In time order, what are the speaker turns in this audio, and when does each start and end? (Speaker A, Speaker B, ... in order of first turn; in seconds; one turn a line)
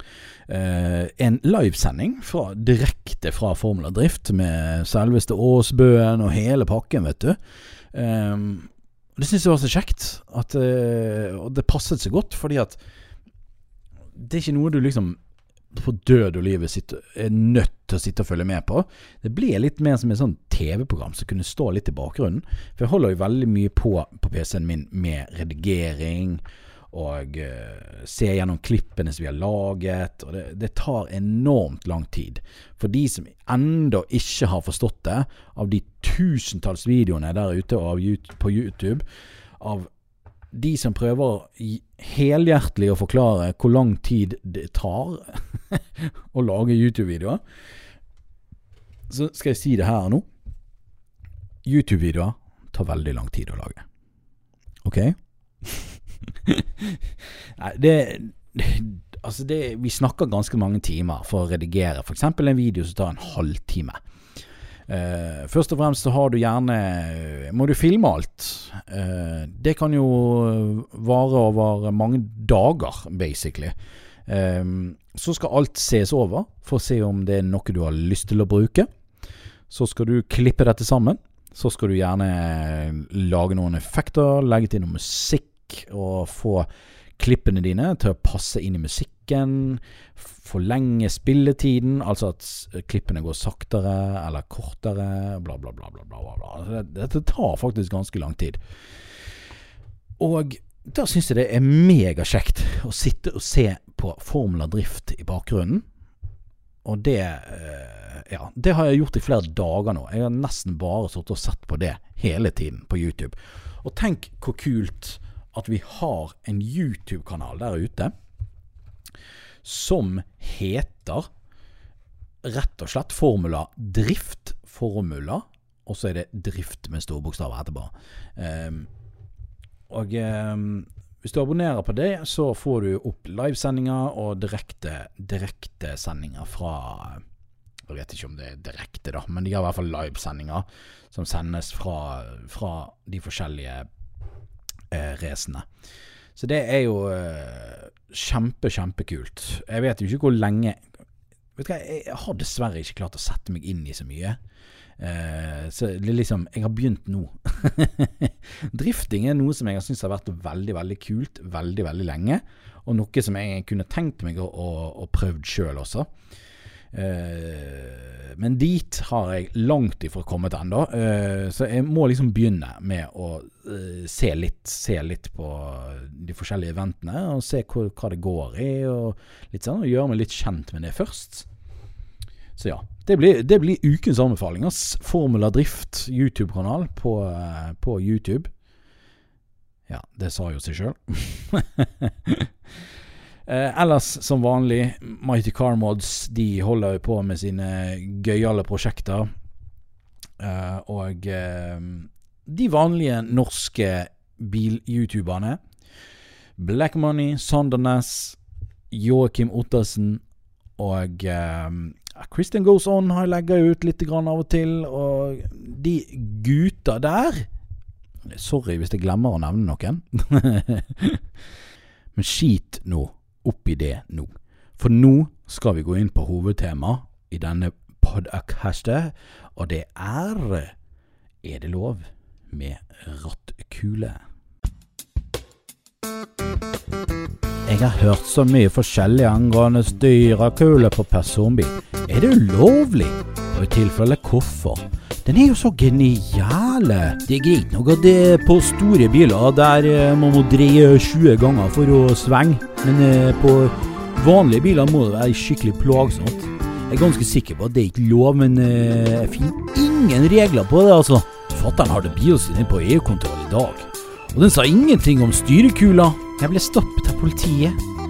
Speaker A: 0.5-7.4
Speaker A: 7.9-12.8
Speaker A: 14.2-15.2
Speaker A: 15.7-39.0
Speaker A: 39.6-39.9
Speaker A: 40.5-47.4
Speaker A: 49.1-50.3
Speaker A: 51.6-53.9
Speaker A: 54.8-55.9
Speaker A: 56.5-64.0
Speaker A: 64.9-73.7
Speaker A: 74.3-78.9
Speaker A: 79.7-98.6
Speaker A: 100.2-105.8
Speaker A: 106.8-118.1
Speaker A: 119.6-121.3
Speaker A: 122.4-128.9
Speaker A: 129.9-137.2
Speaker A: 137.9-143.9
Speaker A: 144.9-145.7
Speaker A: 146.4-150.8
Speaker A: 151.6-154.4
Speaker A: 155.0-166.1
Speaker A: 166.9-181.5
Speaker A: 182.6-188.5
Speaker A: 189.9-192.5
Speaker A: 193.5-199.3
Speaker A: 200.4-205.6
Speaker A: 206.6-208.4
Speaker A: 208.9-210.2
Speaker A: 210.8-217.5
Speaker A: 218.3-221.2
Speaker A: 222.2-230.7
Speaker A: 231.4-234.2
Speaker A: 237.7-267.8